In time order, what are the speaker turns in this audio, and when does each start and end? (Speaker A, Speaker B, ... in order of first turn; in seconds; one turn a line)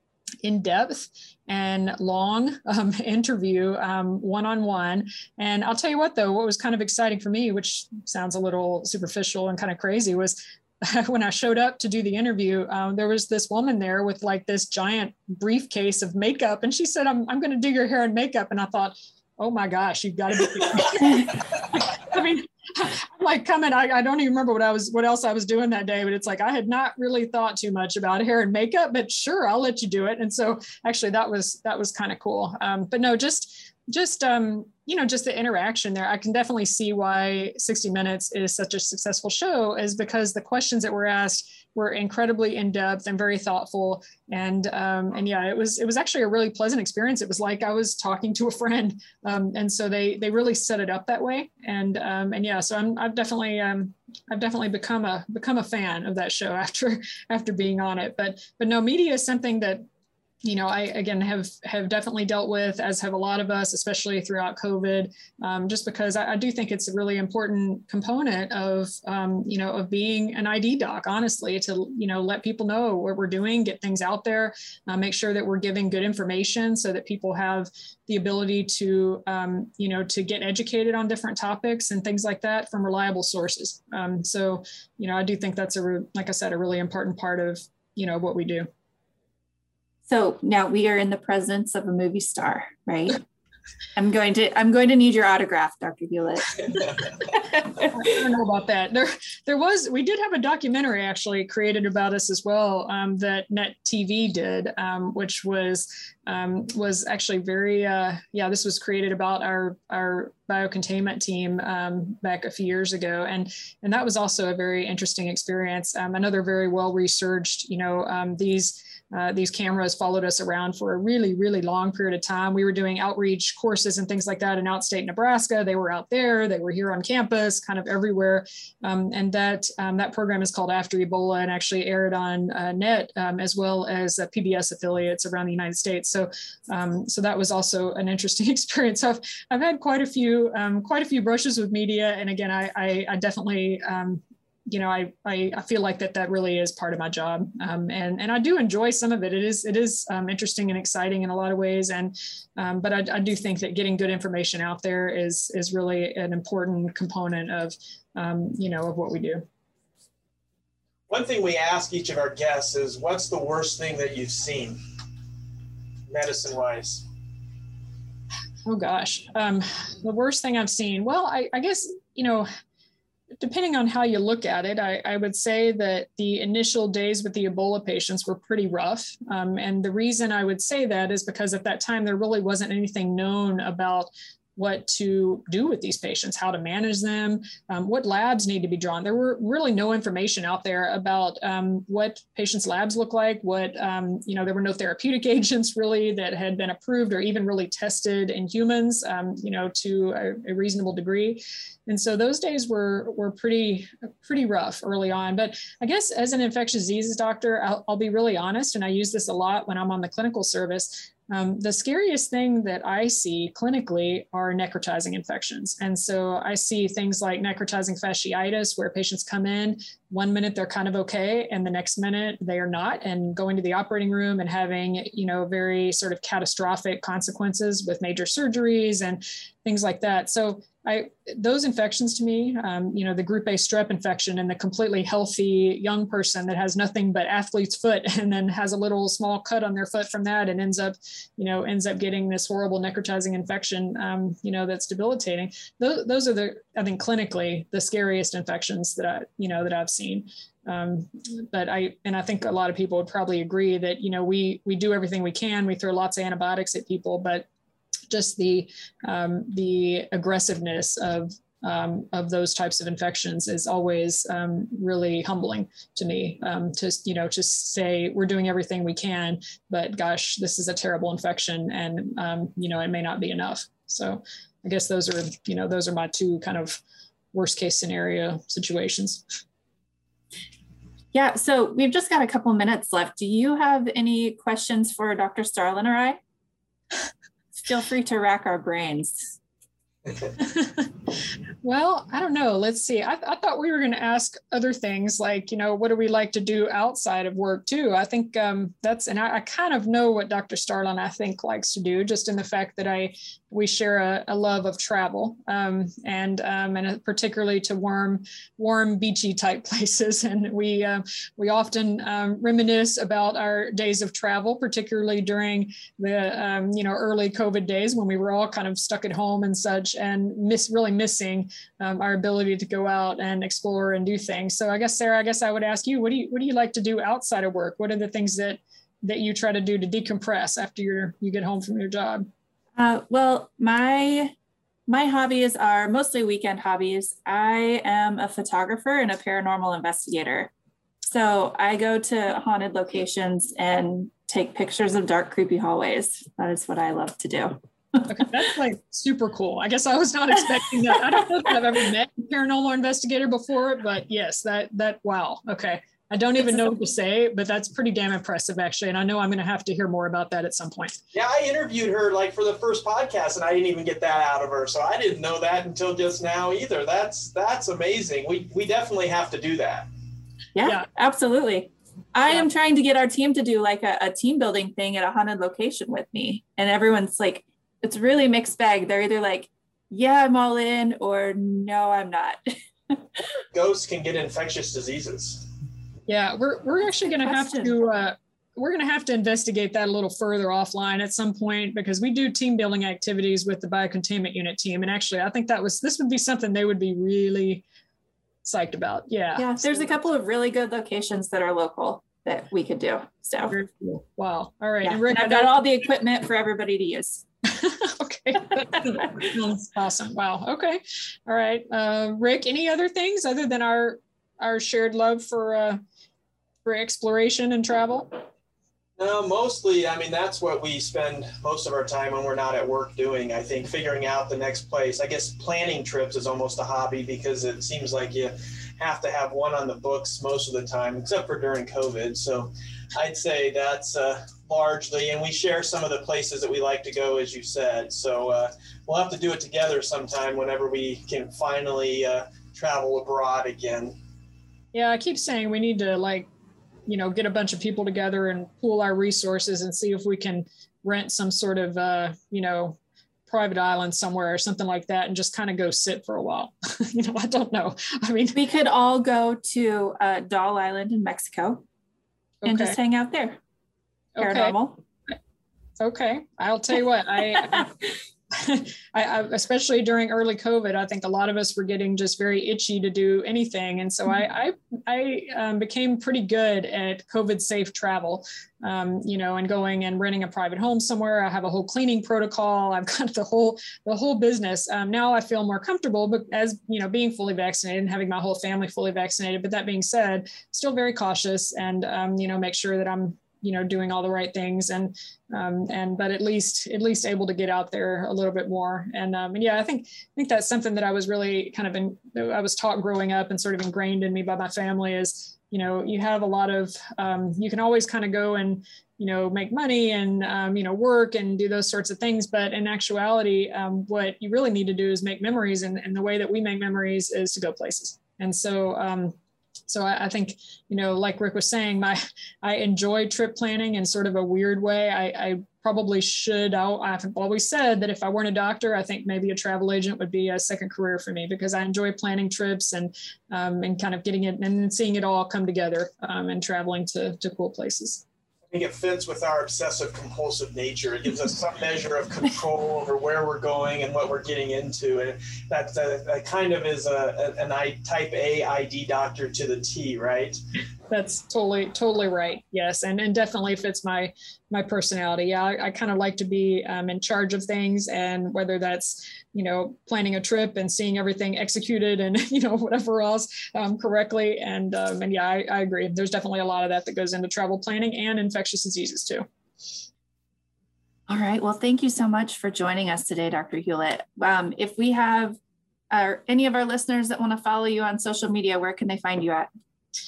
Speaker A: 0.4-59.8
Speaker A: 60.4-88.7
Speaker B: 90.0-93.2
Speaker B: 94.0-98.0
Speaker A: 97.9-159.4
Speaker C: 161.1-164.8
Speaker C: 166.1-167.0
Speaker A: 168.6-172.5
Speaker A: 173.4-257.5
Speaker A: 258.1-276.8
Speaker A: 277.3-279.2
Speaker B: 281.1-286.2
Speaker B: 287.6-289.4
Speaker A: 290.4-290.9
Speaker A: 291.6-332.3
Speaker B: 332.8-334.3
Speaker B: 334.9-340.5
Speaker B: 341.1-347.6
Speaker A: 348.1-360.9
Speaker C: 361.1-369.9
Speaker B: 370.5-383.2
Speaker C: 383.5-385.5
Speaker A: 386.1-397.6
Speaker B: 386.9-387.7
Speaker A: 398.4-399.9
Speaker B: 399.4-403.5
Speaker A: 403.5-405.6
Speaker B: 404.8-407.2
Speaker A: 407.5-415.8
Speaker A: 416.6-418.2
Speaker C: 419.0-443.9
Speaker A: 444.7-446.3
Speaker A: 446.9-458.4
Speaker B: 458.3-461.6
Speaker A: 462.4-462.8
Speaker B: 462.4-463.4
Speaker A: 464.1-464.6
Speaker B: 464.2-464.8
Speaker A: 465.8-467.7
Speaker A: 468.3-519.1
Speaker A: 519.7-538.0
Speaker C: 538.5-550.4
Speaker A: 550.9-569.2
Speaker B: 571.1-575.4
Speaker B: 575.9-579.5